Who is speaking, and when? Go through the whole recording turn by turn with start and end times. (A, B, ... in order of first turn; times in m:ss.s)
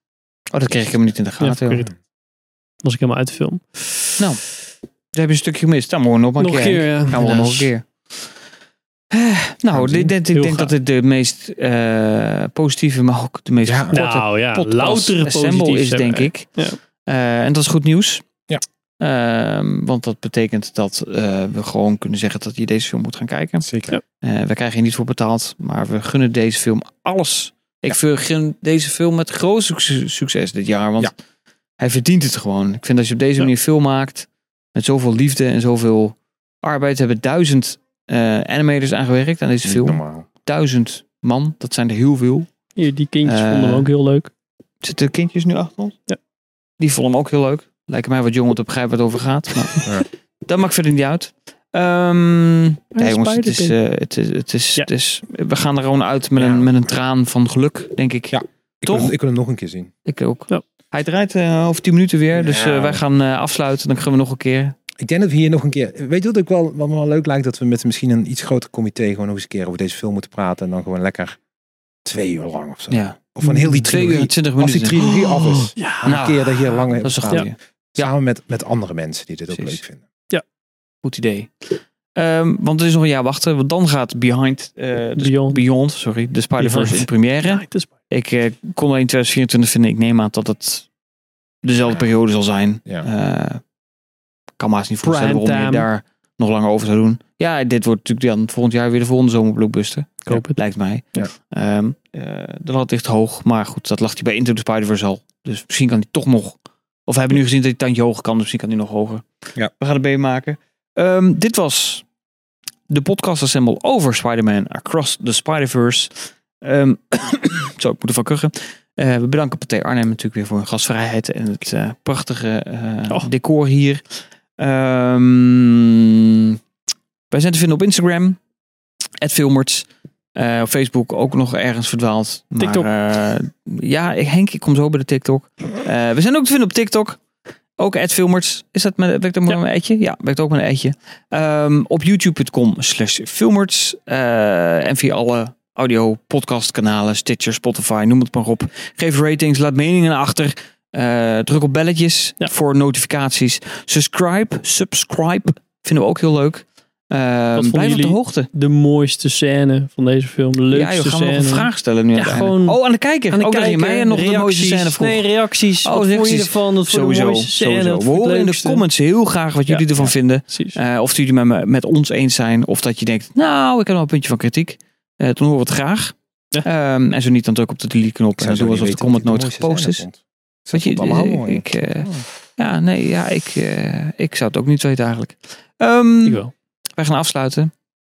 0:00.5-0:01.8 A
0:01.4-0:01.9 B
0:02.8-0:04.0 B
0:04.2-0:04.4 A
0:05.1-0:08.4 A
0:06.4-0:07.7 B
0:09.1-0:18.2 A
0:09.7-0:10.1 C
0:10.3-0:10.8 B
0:13.6-0:14.0 C
0:13.9-0:16.8 B
0:19.0-0:23.7 A
0:23.6-0:24.0 C
0:24.2-0:31.1 A
0:31.8-0:42.5 A
0:39.6-0:40.3 C
0:42.8-0:44.3 B
0:43.2-0:43.9 A
0:44.8-0:46.0 A
0:46.8-0:59.1 A
0:53.0-0:53.8 B
0:56.4-0:56.7 C
0:58.3-0:59.9 C
1:00.0-1:04.8 A
1:02.3-1:03.0 C
1:05.0-1:11.4 C
1:12.0-1:20.0 C
1:12.9-1:18.1 A
1:15.8-1:16.3 B
1:19.5-1:19.8 A
1:21.0-1:30.9 A
1:25.2-1:25.6 B
1:26.6-1:27.9 B
1:31.6-1:33.6 A
1:34.6-1:52.1 A
1:35.0-1:35.9 B
1:40.3-1:40.6 B
1:52.9-2:06.2 A
2:07.3-2:08.4 A
2:09.2-2:17.2 A
2:12.6-2:12.9 B
2:17.8-2:38.5 A
2:37.6-2:48.8 B
2:40.7-2:45.3 A
2:45.8-3:00.0 A
2:50.4-2:50.8 B
2:58.4-3:02.3 C
3:00.7-3:06.4 A
3:06.2-3:06.5 B
3:07.0-3:07.7 A